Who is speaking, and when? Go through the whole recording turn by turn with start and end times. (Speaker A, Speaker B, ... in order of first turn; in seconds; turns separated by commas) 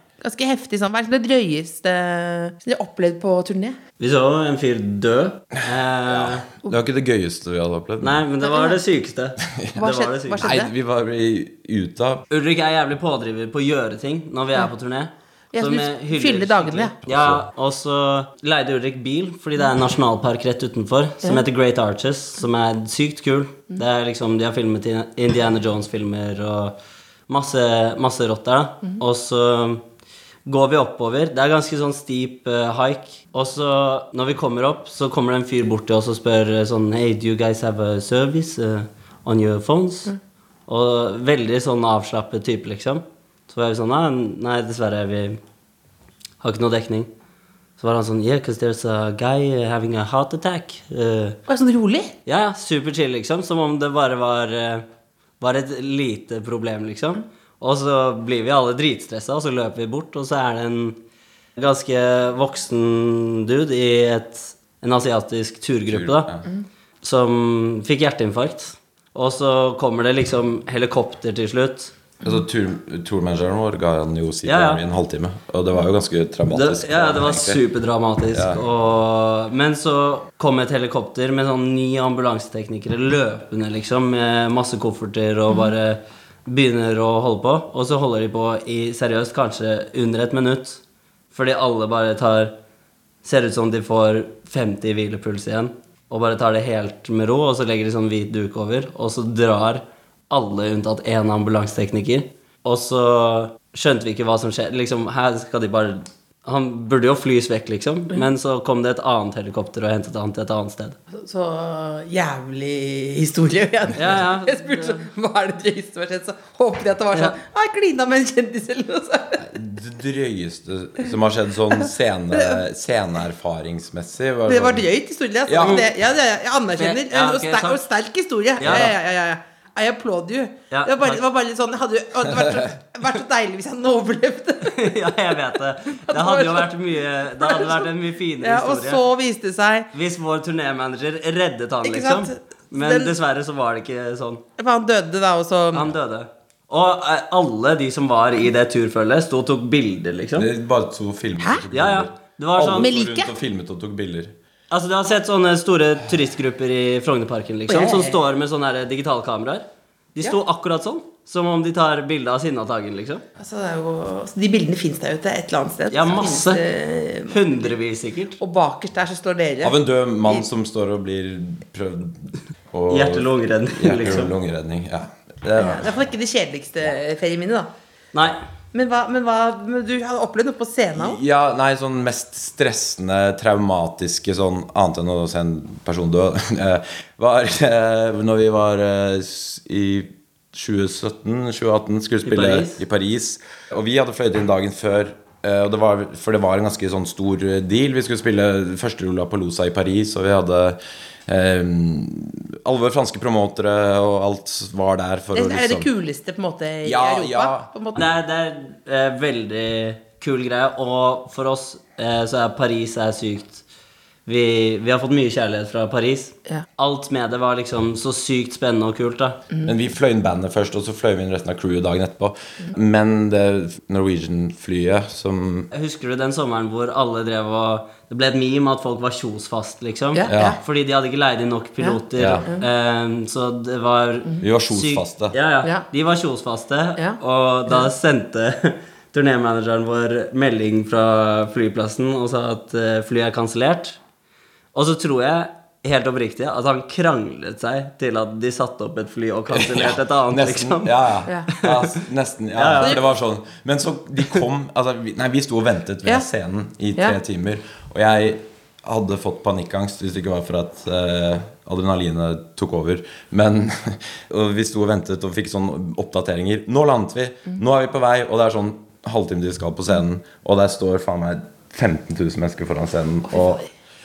Speaker A: 0.2-3.8, Speaker B: 4.0-6.5, Speaker C: 6.1-8.3, Speaker B: 8.0-10.5, Speaker A: 8.4-8.8, Speaker C: 9.5-9.8, Speaker A: 9.8-10.7, Speaker C: 10.4-12.2, Speaker B: 12.3-26.8, Speaker A: 15.5-17.0, Speaker C: 17.1-17.4, Speaker B: 27.3-29.8, Speaker B: 30.5-40.1, Speaker B: 40.7-45.4, Speaker B: 46.4-47.1, Speaker B: 47.8-51.4, Speaker A: 51.5-52.1, Speaker B: 52.3-54.9, Speaker B: 55.4-61.0, Speaker B: 61.6-66.3, Speaker C: 65.9-66.5, Speaker B: 67.0-71.9, Speaker C: 72.2-77.6, Speaker B: 74.5-74.8, Speaker B: 76.5-90.8, Speaker C: 78.3-78.6, Speaker B: 91.3-92.5, Speaker B: 93.2-111.0, Speaker A: 111.1-119.4, Speaker B: 114.0-115.0, Speaker C: 119.4-124.8, Speaker A: 122.3-122.6, Speaker A: 124.5-134.9, Speaker C: 125.5-125.8, Speaker B: 125.6-125.9, Speaker B: 126.8-127.8, Speaker B: 128.6-128.9, Speaker B: 130.7-131.2, Speaker C: 132.2-132.7, Speaker B: 134.7-139.0, Speaker A: 136.1-136.7, Speaker A: 137.4-139.9, Speaker B: 139.9-144.4, Speaker A: 141.8-143.1, Speaker A: 144.6-145.9, Speaker B: 145.7-150.5, Speaker C: 150.4-154.3, Speaker B: 151.7-152.9, Speaker A: 152.8-153.3, Speaker B: 154.7-163.2, Speaker A: 157.7-158.2, Speaker A: 163.4-167.7, Speaker B: 165.9-166.6, Speaker B: 167.3-168.4, Speaker A: 168.4-170.4, Speaker C: 169.6-175.9, Speaker B: 172.9-174.3, Speaker A: 175.6-177.7, Speaker B: 178.1-178.4, Speaker A: 178.7-181.2, Speaker C: 180.9-205.9, Speaker B: 192.2-192.8, Speaker A: 205.3-208.0, Speaker C: 206.8-207.7, Speaker B: 208.0-213.6, Speaker B: 214.3-219.4, Speaker C: 219.6-225.7, Speaker B: 225.7-244.0, Speaker A: 230.2-230.6, Speaker C: 230.3-230.6, Speaker A: 231.8-232.6, Speaker C: 232.2-232.5, Speaker C: 234.4-235.4, Speaker A: 237.0-237.9, Speaker B: 244.7-252.0, Speaker C: 249.5-273.6, Speaker B: 252.5-253.0